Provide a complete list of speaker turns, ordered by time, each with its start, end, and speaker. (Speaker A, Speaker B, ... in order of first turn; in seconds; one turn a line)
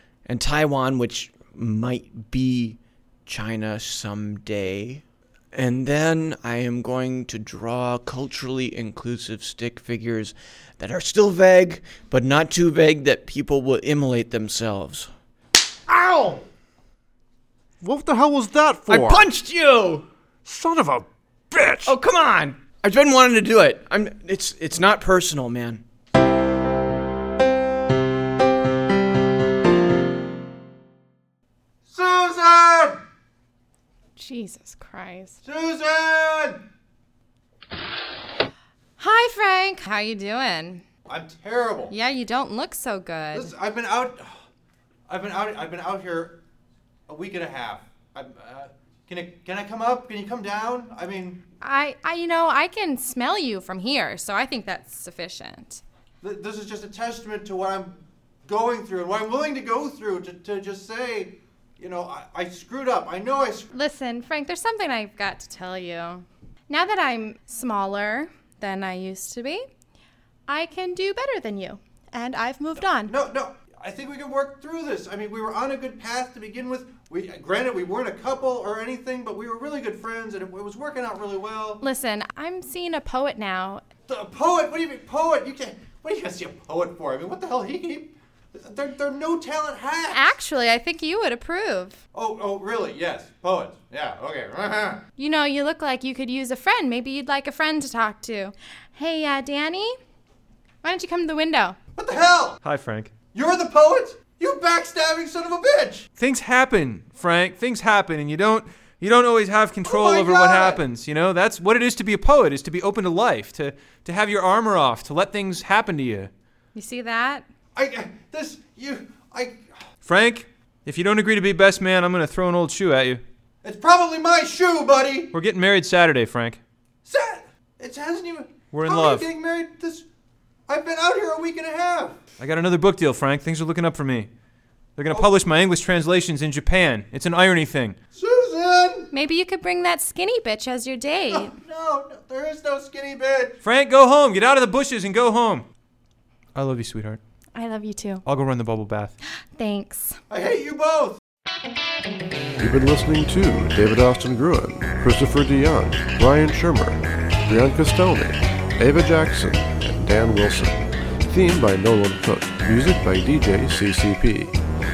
Speaker A: 0.2-15.1
Speaker B: 15.9-16.4
Speaker C: 17.8-19.3
Speaker A: 18.9-20.0
Speaker B: 20.5-21.9
Speaker A: 21.8-25.8
Speaker B: 31.9-33.0
Speaker D: 34.2-35.4
Speaker B: 35.4-36.6
Speaker D: 39.0-40.8
Speaker B: 41.1-41.9
Speaker D: 41.9-43.5
Speaker B: 43.3-44.4
Speaker B: 45.1-46.4
Speaker B: 47.1-51.4
Speaker D: 51.6-55.8
Speaker B: 56.2-63.7
Speaker D: 63.7-69.7
Speaker D: 70.5-73.1
Speaker B: 73.0-81.8
Speaker D: 81.8-83.8
Speaker B: 84.1-90.3
Speaker D: 90.1-92.0
Speaker B: 92.1-95.0
Speaker D: 95.2-100.0
Speaker D: 100.8-101.8
Speaker B: 102.0-102.6
Speaker E: 102.6-103.1
Speaker B: 103.3-106.1
Speaker E: 106.2-116.3
Speaker B: 109.8-110.8
Speaker D: 116.7-117.5
Speaker B: 117.7-119.7
Speaker E: 120.0-123.2
Speaker B: 123.6-125.3
Speaker E: 125.3-126.6
Speaker B: 127.0-130.1
Speaker E: 128.7-129.3
Speaker B: 130.7-132.2
Speaker E: 132.4-134.3
Speaker E: 134.9-138.0
Speaker B: 138.1-139.1
Speaker D: 139.1-141.6
Speaker B: 141.3-143.6
Speaker E: 143.6-145.7
Speaker E: 146.5-147.2
Speaker D: 147.5-148.2
Speaker E: 148.2-149.1
Speaker D: 149.5-150.2
Speaker B: 150.3-151.2
Speaker C: 152.6-164.5